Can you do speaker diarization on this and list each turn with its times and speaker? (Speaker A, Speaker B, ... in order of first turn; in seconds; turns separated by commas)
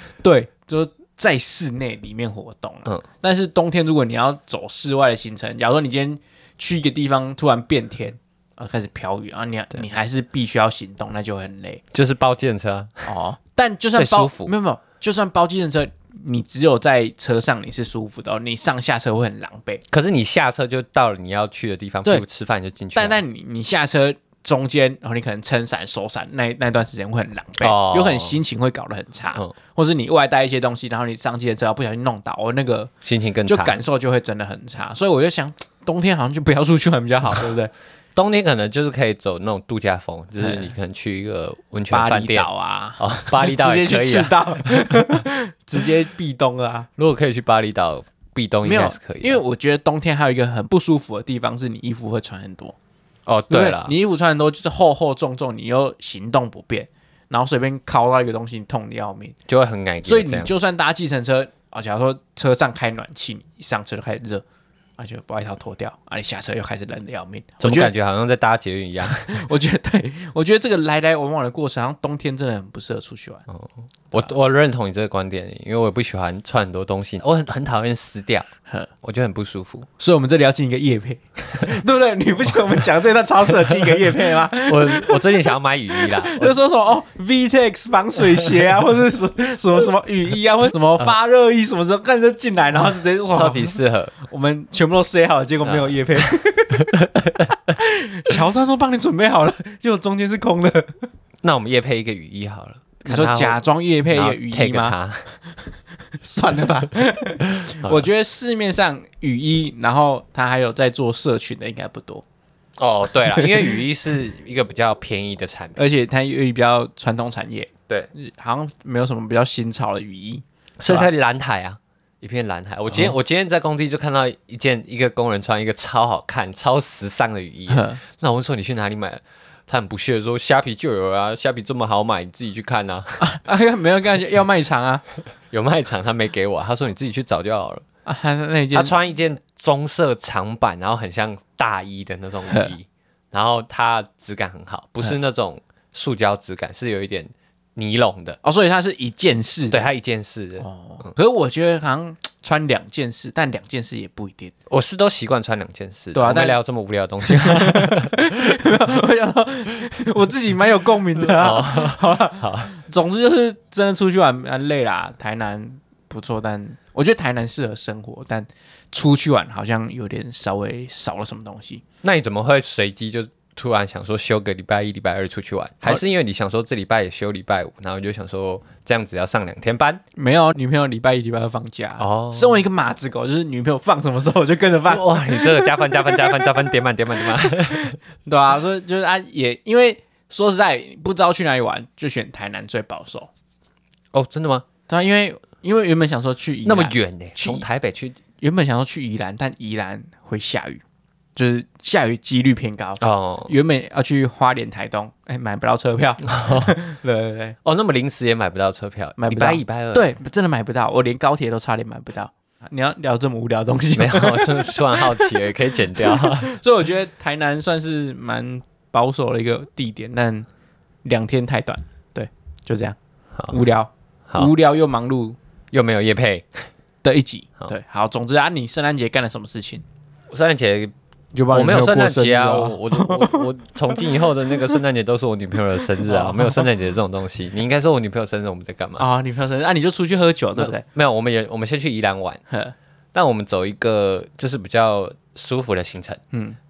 Speaker A: 0.2-11.8, Speaker B: 11.9-13.1, Speaker A: 13.1-19.8, Speaker B: 13.9-14.5, Speaker B: 19.9-23.2, Speaker A: 22.9-32.9, Speaker B: 27.6-28.4, Speaker B: 33.0-33.8, Speaker A: 33.5-37.7, Speaker B: 38.1-44.8, Speaker A: 40.4-40.7, Speaker A: 41.9-46.9, Speaker B: 47.0-49.4, Speaker A: 48.6-52.7, Speaker B: 53.2-53.9, Speaker A: 53.5-59.4, Speaker B: 59.5-60.5, Speaker A: 60.0-64.4, Speaker A: 65.0-67.9, Speaker B: 67.6-69.4, Speaker A: 69.1-73.4, Speaker B: 73.5-78.5, Speaker B: 79.0-79.9, Speaker A: 80.0-96.9, Speaker B: 84.6-86.6, Speaker B: 93.3-94.1, Speaker B: 95.6-96.0, Speaker B: 96.9-97.5, Speaker A: 97.7-101.0, Speaker B: 101.4-105.2, Speaker A: 103.0-105.0, Speaker A: 106.2-112.2, Speaker B: 107.6-108.1, Speaker B: 112.8-115.8, Speaker A: 113.3-113.7, Speaker A: 115.8-121.1, Speaker B: 120.8-133.3, Speaker A: 127.7-128.0, Speaker A: 133.2-135.0, Speaker B: 135.5-137.8, Speaker A: 138.1-138.9, Speaker B: 138.7-148.4, Speaker A: 148.4-149.8, Speaker B: 149.7-151.1, Speaker A: 150.6-154.5, Speaker B: 154.7-158.2, Speaker A: 156.1-156.6, Speaker A: 157.2-171.8, Speaker B: 161.2-162.7, Speaker B: 172.0-180.0, Speaker A: 180.2-186.5, Speaker B: 182.0-182.6, Speaker B: 184.9-187.9, Speaker A: 187.4-193.3, Speaker B: 194.1-194.7, Speaker A: 194.9-197.7, Speaker B: 196.6-198.2, Speaker A: 198.4-200.8, Speaker A: 201.3-207.6, Speaker B: 203.0-203.5, Speaker B: 206.3-206.7, Speaker B: 207.6-210.1, Speaker A: 209.2-215.3, Speaker B: 213.9-216.5, Speaker A: 216.0-220.5, Speaker A: 221.0-222.9, Speaker A: 223.5-225.4, Speaker B: 225.7-226.7, Speaker A: 227.0-229.8, Speaker B: 230.3-230.9, Speaker A: 231.3-233.5, Speaker B: 231.5-239.1, Speaker A: 236.0-236.7, Speaker A: 239.0-240.8, Speaker B: 240.6-242.4, Speaker A: 242.5-242.7, Speaker B: 243.1-246.2, Speaker A: 246.3-246.6